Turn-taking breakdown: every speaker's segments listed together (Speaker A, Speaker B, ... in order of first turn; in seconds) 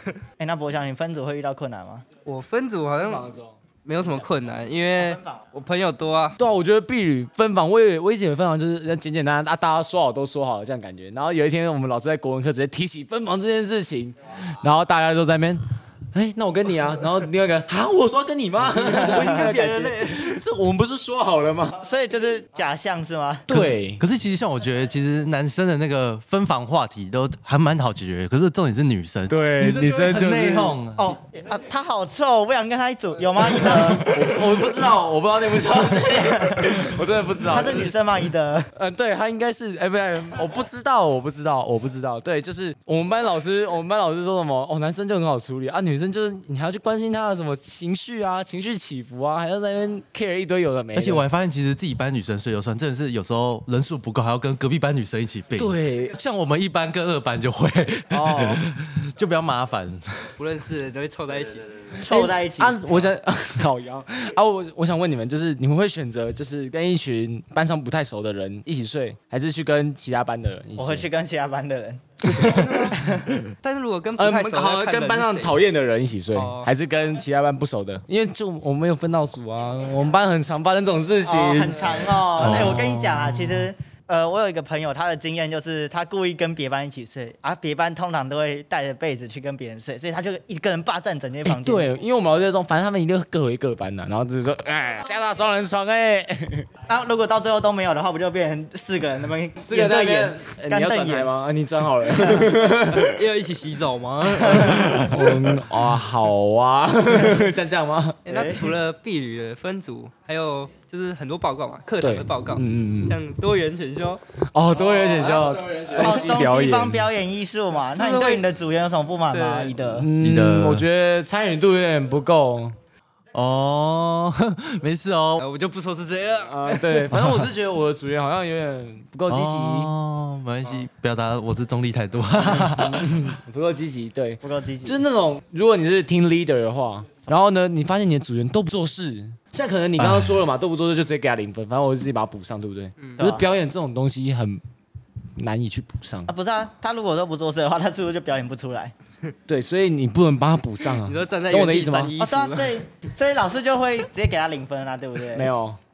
Speaker A: 0.4-2.1, 5.0-5.4, 18.9-19.5, 21.8-23.5, 31.0-34.3, 36.1-36.8, 37.5-38.7, 58.1-58.6, 62.0-62.9, 70.8-73.4, 81.2-91.9, 96.9-101.4, 102.2-102.5, 107.2-107.5, 108.3-108.7, 115.9-120.1, 134.4-135.0, 143.2-143.5, 146.3-148.9, 152.2-155.5
Speaker B: 2.2-3.3, 3.8-6.4, 18.8-20.4, 60.4-61.9, 72.4-73.0, 73.6-75.6, 76.3-76.7, 102.9-105.3, 108.2-114.2, 117.8-118.5, 119.3-119.8, 125.4-127.1, 150.9-152.8
Speaker C: 3.0-3.6, 6.4-15.6, 16.1-21.9, 23.5-24.0, 29.3-30.8, 33.6-37.9, 38.8-51.3, 55.6-56.2, 62.0-71.1, 72.2-72.8, 74.2-82.8, 91.4-96.7, 99.6-103.2, 104.5-108.2, 112.0-113.2, 114.4-117.1, 119.9-122.8, 126.4-129.9, 132.3-144.6, 145.4-146.3, 149.5-152.1, 155.3-155.8
Speaker D: 23.5-31.1, 50.9-60.3, 82.4-83.7, 120.2-120.9, 123.3-125.5, 127.1-127.5, 129.3-133.0, 140.0-140.4